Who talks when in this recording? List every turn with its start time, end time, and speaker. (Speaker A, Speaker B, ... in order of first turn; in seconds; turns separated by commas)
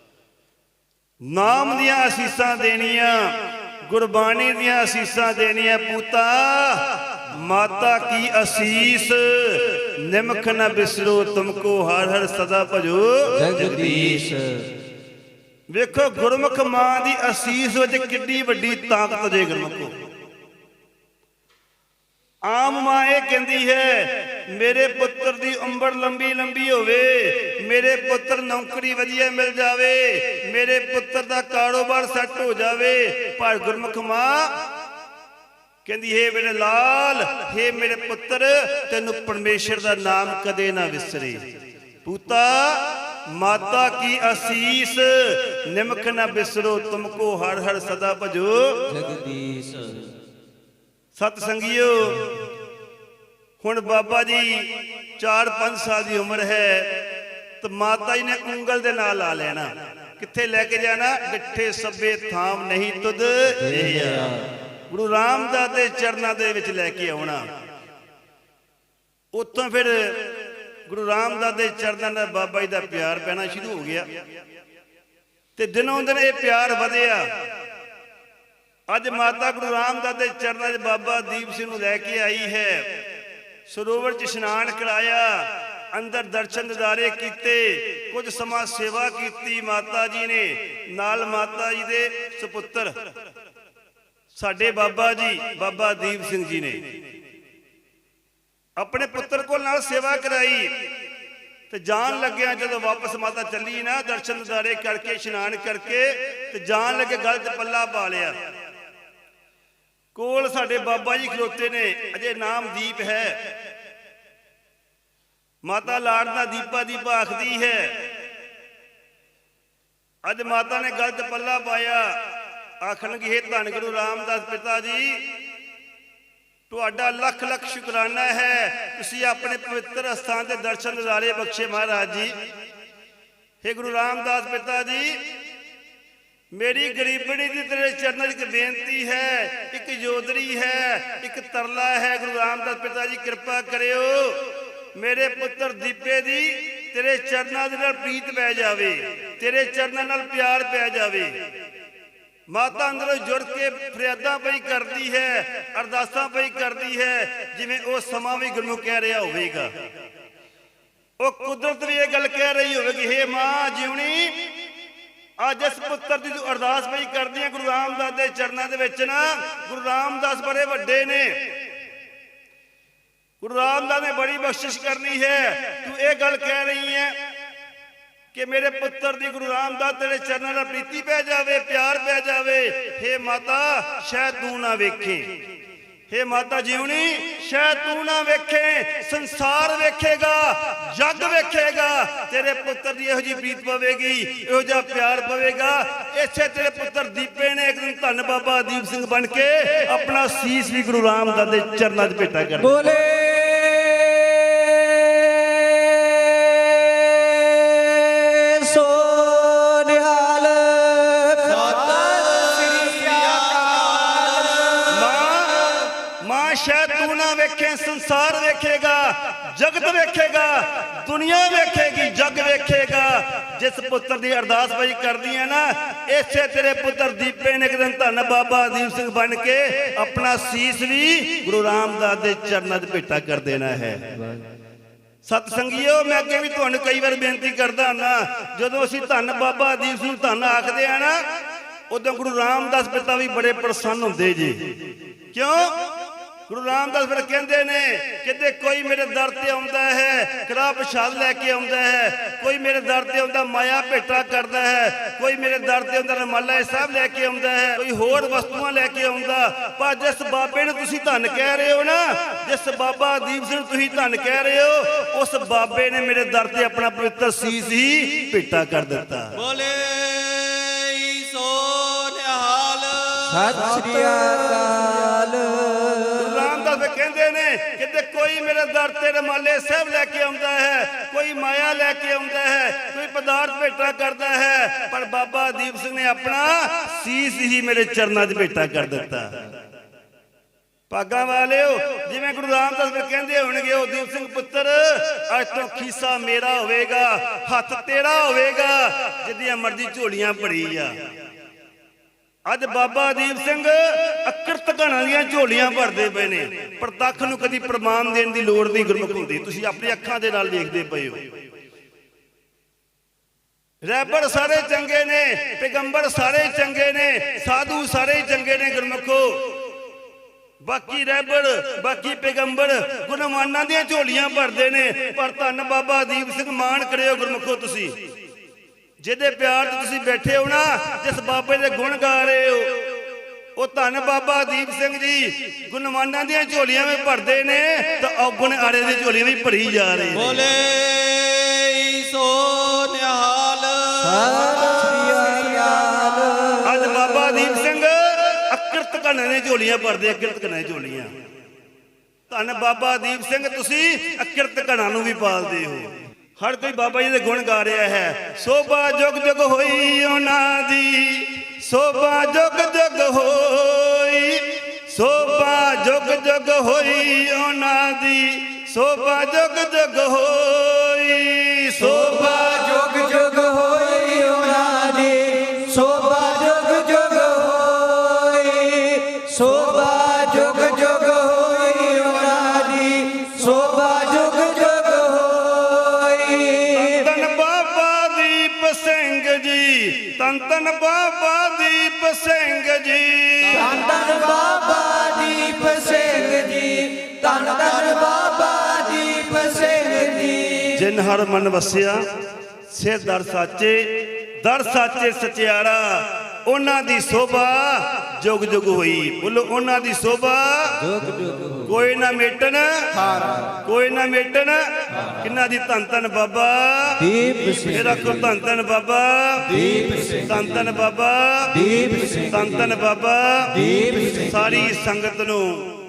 Speaker A: 1.3-3.3, Speaker A: 3.9-14.3, Speaker B: 13.4-14.7, Speaker A: 15.7-19.9, Speaker A: 22.4-34.5, Speaker A: 35.8-41.4, Speaker A: 42.0-48.9, Speaker B: 48.9-50.1, Speaker A: 51.1-52.4, Speaker A: 53.6-57.1, Speaker A: 57.6-67.5, Speaker A: 69.3-74.0, Speaker A: 75.5-77.2, Speaker A: 78.9-83.0, Speaker A: 83.7-92.9, Speaker A: 94.3-96.8, Speaker A: 98.8-100.7, Speaker A: 101.7-108.4, Speaker A: 110.1-113.4, Speaker A: 115.6-117.9, Speaker A: 120.2-122.1, Speaker A: 122.8-125.2, Speaker A: 126.7-132.3, Speaker A: 133.6-135.2, Speaker A: 136.5-151.3, Speaker A: 152.5-159.7, Speaker A: 161.2-164.4, Speaker A: 165.4-171.5, Speaker A: 173.4-177.1, Speaker A: 178.3-185.2, Speaker A: 186.1-202.9, Speaker B: 202.6-212.9, Speaker C: 211.4-214.9, Speaker A: 214.9-234.0, Speaker A: 235.2-241.2, Speaker A: 241.9-244.7, Speaker A: 245.3-245.8, Speaker A: 246.5-269.3, Speaker C: 269.4-273.8, Speaker B: 273.2-276.4, Speaker A: 276.2-289.4, Speaker A: 290.9-300.9, Speaker A: 302.5-311.3, Speaker A: 313.8-319.5, Speaker A: 320.6-327.9, Speaker A: 329.0-332.8, Speaker A: 333.6-340.5, Speaker C: 340.2-344.8, Speaker B: 344.0-347.0, Speaker A: 346.6-351.1, Speaker A: 352.3-372.6, Speaker B: 372.1-387.0, Speaker A: 386.7-393.7, Speaker B: 393.5-400.8, Speaker A: 400.7-402.0, Speaker A: 402.7-410.9, Speaker B: 410.9-411.7, Speaker A: 411.6-413.0, Speaker A: 413.6-417.1, Speaker B: 417.0-418.2, Speaker A: 417.6-419.6, Speaker B: 419.5-420.2, Speaker A: 420.2-421.6, Speaker B: 421.5-422.5, Speaker A: 422.2-425.6, Speaker B: 423.6-424.5